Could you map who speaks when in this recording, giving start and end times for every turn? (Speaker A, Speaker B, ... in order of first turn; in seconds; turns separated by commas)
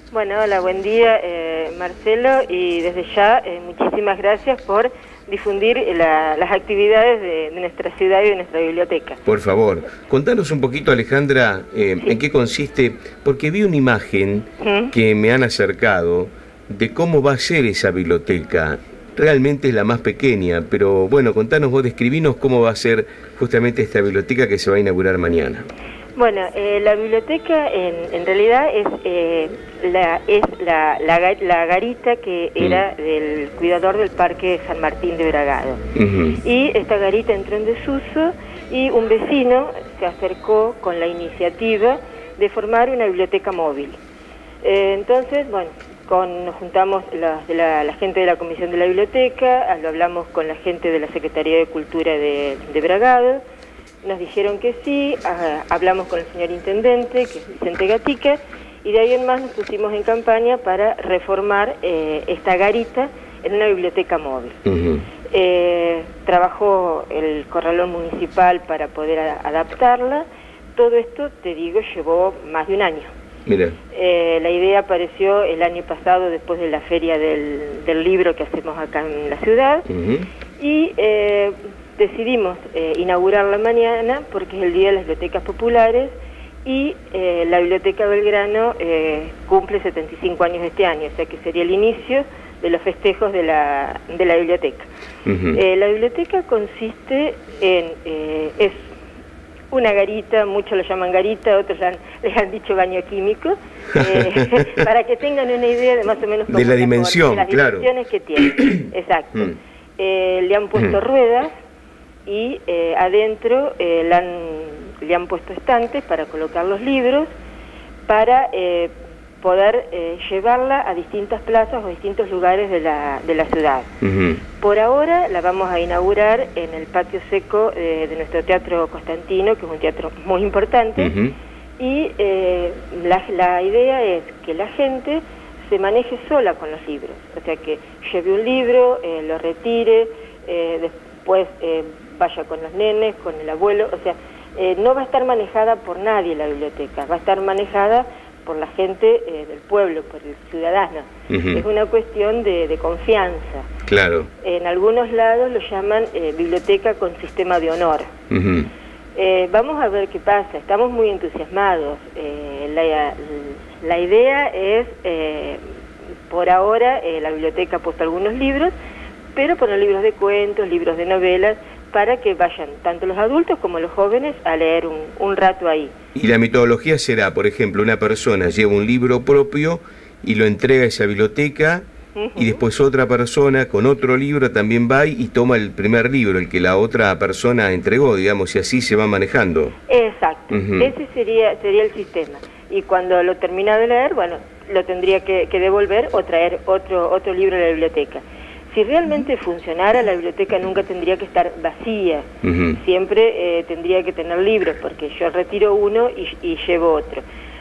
Speaker A: 0.1-9.2, Speaker B: 9.2-25.7, Speaker A: 14.6-14.9, Speaker A: 26.1-35.8, Speaker B: 35.9-36.4, Speaker A: 36.4-44.0, Speaker A: 44.6-53.4, Speaker A: 54.0-64.6, Speaker B: 64.7-65.0, Speaker A: 65.3-70.2, Speaker A: 70.8-73.1, Speaker B: 73.5-73.8, Speaker A: 73.9-79.9, Speaker B: 79.9-80.3, Speaker A: 80.6-86.1, Speaker A: 86.6-94.9, Speaker B: 95.2-95.6, Speaker A: 95.5-98.9, Speaker A: 99.7-111.5, Speaker B: 106.5-107.9, Speaker B: 108.5-108.8, Speaker A: 112.2-117.3, Speaker A: 118.1-123.9, Speaker B: 124.0-124.4, Speaker A: 124.6-131.1, Speaker B: 131.0-131.3, Speaker A: 131.8-153.7, Speaker B: 151.3-151.6, Speaker B: 153.9-154.3, Speaker A: 154.4-158.1, Speaker B: 158.3-158.7, Speaker A: 159.2-165.7, Speaker A: 166.3-168.7, Speaker A: 169.3-175.9, Speaker B: 176.1-189.7, Speaker A: 182.1-182.6, Speaker A: 189.9-207.2, Speaker B: 190.5-190.9, Speaker B: 202.4-202.8